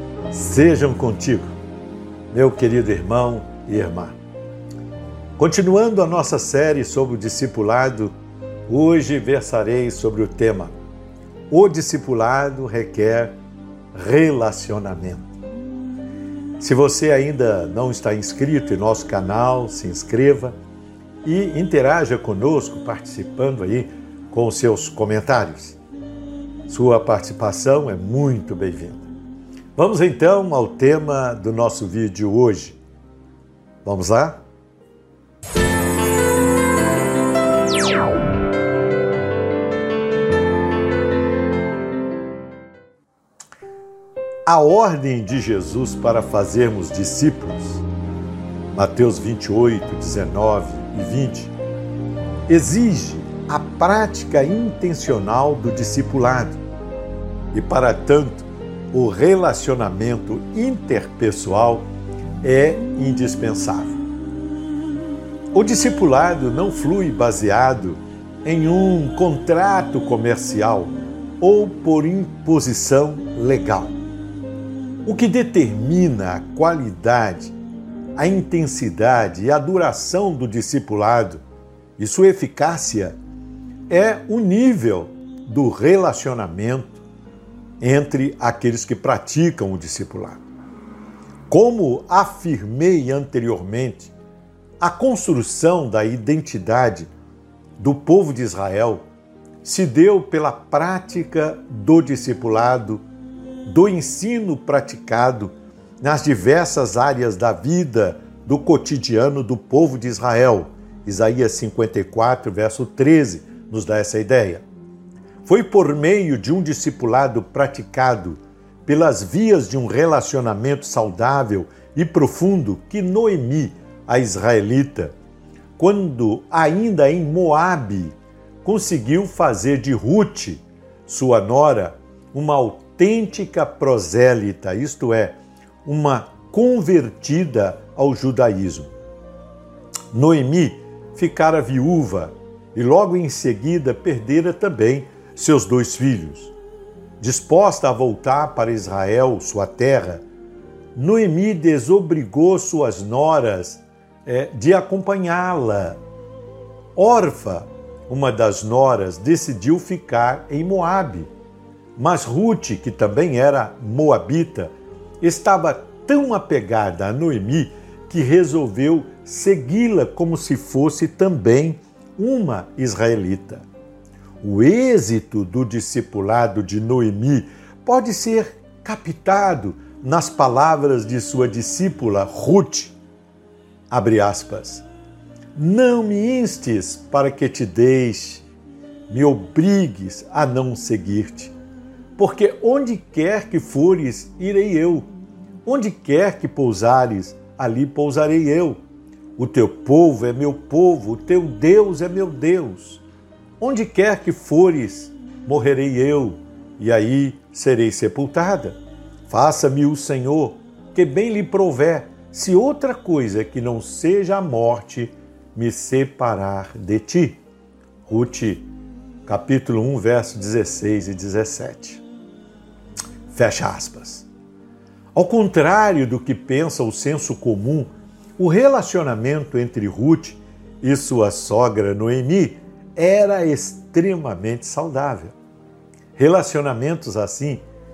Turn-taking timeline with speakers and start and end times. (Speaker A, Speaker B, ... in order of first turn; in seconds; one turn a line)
Speaker A: 0.3-1.5
Speaker A: 2.3-4.2
Speaker A: 5.4-8.1
Speaker A: 8.7-10.7
Speaker A: 11.5-13.3
Speaker A: 13.9-15.3
Speaker A: 16.6-20.6
Speaker A: 21.2-25.8
Speaker A: 26.7-29.1
Speaker A: 29.8-32.8
Speaker A: 33.8-34.4
Speaker A: 44.5-47.9
Speaker A: 48.7-51.5
Speaker A: 52.5-56.6
Speaker A: 57.5-61.9
Speaker A: 62.4-64.0
Speaker A: 65.5-74.0
Speaker A: 75.0-77.5
Speaker A: 78.2-81.4
Speaker A: 82.0-83.2
Speaker A: 83.9-87.0
Speaker A: 87.8-90.4
Speaker A: 91.5-94.1
Speaker A: 94.8-97.1
Speaker A: 97.8-99.1
Speaker A: 99.6-103.0
Speaker A: 103.7-114.6
Speaker A: 115.5-125.1
Speaker A: 125.8-138.9
Speaker A: 140.1-146.5
Speaker A: 147.2-150.2
Speaker A: 150.9-156.0
Speaker A: 157.0-161.3
Speaker A: 162.0-173.7
Speaker A: 174.4-183.0
Speaker A: 183.9-184.8
Speaker A: 185.6-188.4
Speaker A: 189.1-191.5
Speaker A: 192.2-195.1
Speaker A: 195.7-198.8
Speaker A: 199.4-203.0
Speaker A: 203.6-208.8
Speaker A: 209.3-217.4
Speaker A: 218.1-218.7
Speaker A: 219.3-222.0
Speaker A: 223.3-224.3
Speaker A: 225.2-235.3
Speaker A: 236.2-237.6